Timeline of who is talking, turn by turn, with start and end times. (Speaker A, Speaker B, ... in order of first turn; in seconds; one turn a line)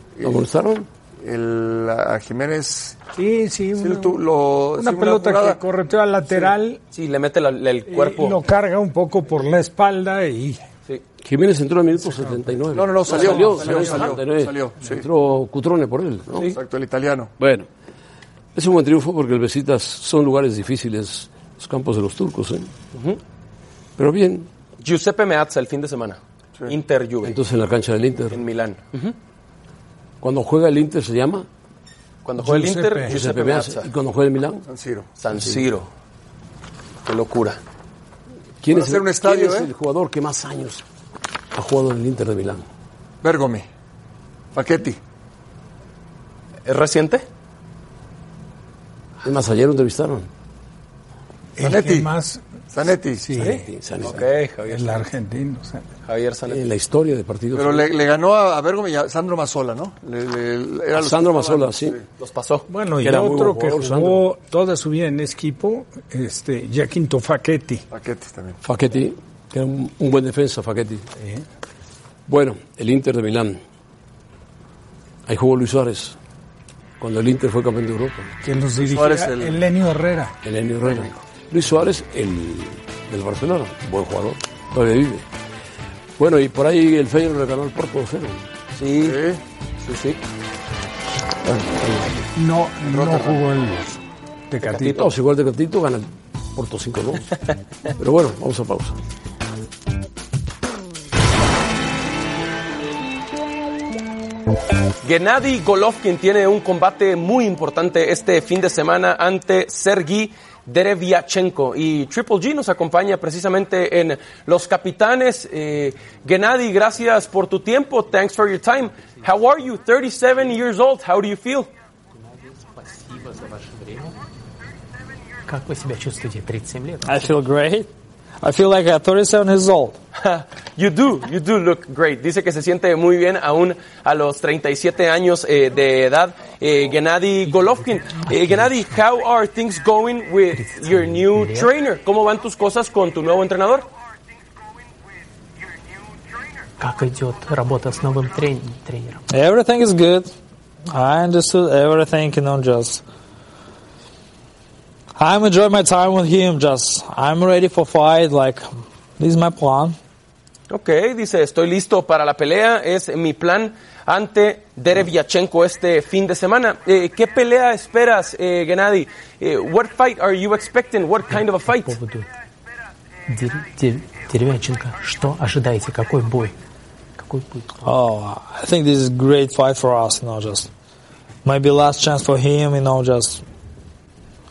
Speaker A: 0.2-0.9
Speaker B: 1.2-3.0
Speaker C: 3.1-4.2
Speaker B: 3.8-5.6
Speaker C: 4.8-6.8
Speaker D: 6.4-8.4
Speaker C: 7.9-10.7
Speaker A: 11.2-16.5
Speaker B: 12.7-15.1
Speaker D: 13.1-14.1
Speaker B: 16.4-17.3
Speaker A: 17.4-17.7
Speaker A: 18.5-22.7
Speaker D: 22.9-23.2
Speaker A: 24.0-24.5
Speaker D: 24.8-27.4
Speaker A: 27.2-28.4
Speaker D: 28.3-29.1
Speaker A: 30.2-31.5
Speaker D: 32.2-33.9
Speaker C: 32.4-33.1
Speaker A: 33.0-34.6
Speaker B: 34.6-35.1
Speaker D: 35.2-35.9
Speaker A: 35.3-35.7
Speaker D: 37.0-37.6
Speaker A: 38.6-40.8
Speaker B: 38.7-39.7
Speaker A: 41.5-42.6
Speaker B: 43.2-43.7
Speaker B: 44.5-45.0
Speaker D: 46.6-47.2
Speaker A: 49.2-50.3
Speaker C: 51.5-52.4
Speaker B: 51.6-52.1
Speaker B: 52.7-53.4
Speaker C: 53.2-53.6
Speaker A: 53.4-54.2
Speaker D: 54.0-55.0
Speaker C: 54.6-55.9
Speaker D: 56.0-56.6
Speaker A: 56.5-57.9
Speaker B: 57.5-62.0
Speaker A: 60.9-62.0
Speaker D: 62.2-62.6
Speaker C: 62.7-67.8
Speaker A: 63.0-64.2
Speaker B: 67.9-68.6
Speaker A: 68.6-71.0
Speaker C: 71.2-71.4
Speaker A: 72.3-73.6
Speaker A: 75.2-76.2
Speaker A: 77.0-78.3
Speaker C: 78.4-80.3
Speaker B: 78.8-79.6
Speaker A: 80.4-85.3
Speaker A: 86.2-88.5
Speaker D: 88.7-89.2
Speaker B: 89.0-89.4
Speaker D: 89.8-90.2
Speaker A: 91.4-92.1
Speaker C: 92.3-95.0
Speaker B: 92.8-93.4
Speaker D: 94.6-95.1
Speaker A: 94.8-97.3
Speaker A: 98.0-99.0
Speaker D: 105.0-121.7
Speaker E: 122.5-124.2
Speaker E: 125.5-127.3
Speaker F: 127.0-127.9
Speaker F: 128.4-130.0
Speaker D: 130.2-143.9
Speaker E: 138.3-138.9
Speaker E: 140.5-141.7
Speaker E: 146.8-149.2
Speaker F: 149.3-150.3
Speaker F: 150.9-153.0
Speaker F: 155.2-158.7
Speaker F: 159.2-159.9
Speaker D: 160.7-172.0
Speaker E: 171.3-172.3
Speaker E: 173.3-176.6
Speaker E: 177.2-177.9
Speaker F: 177.8-180.7
Speaker F: 181.4-183.4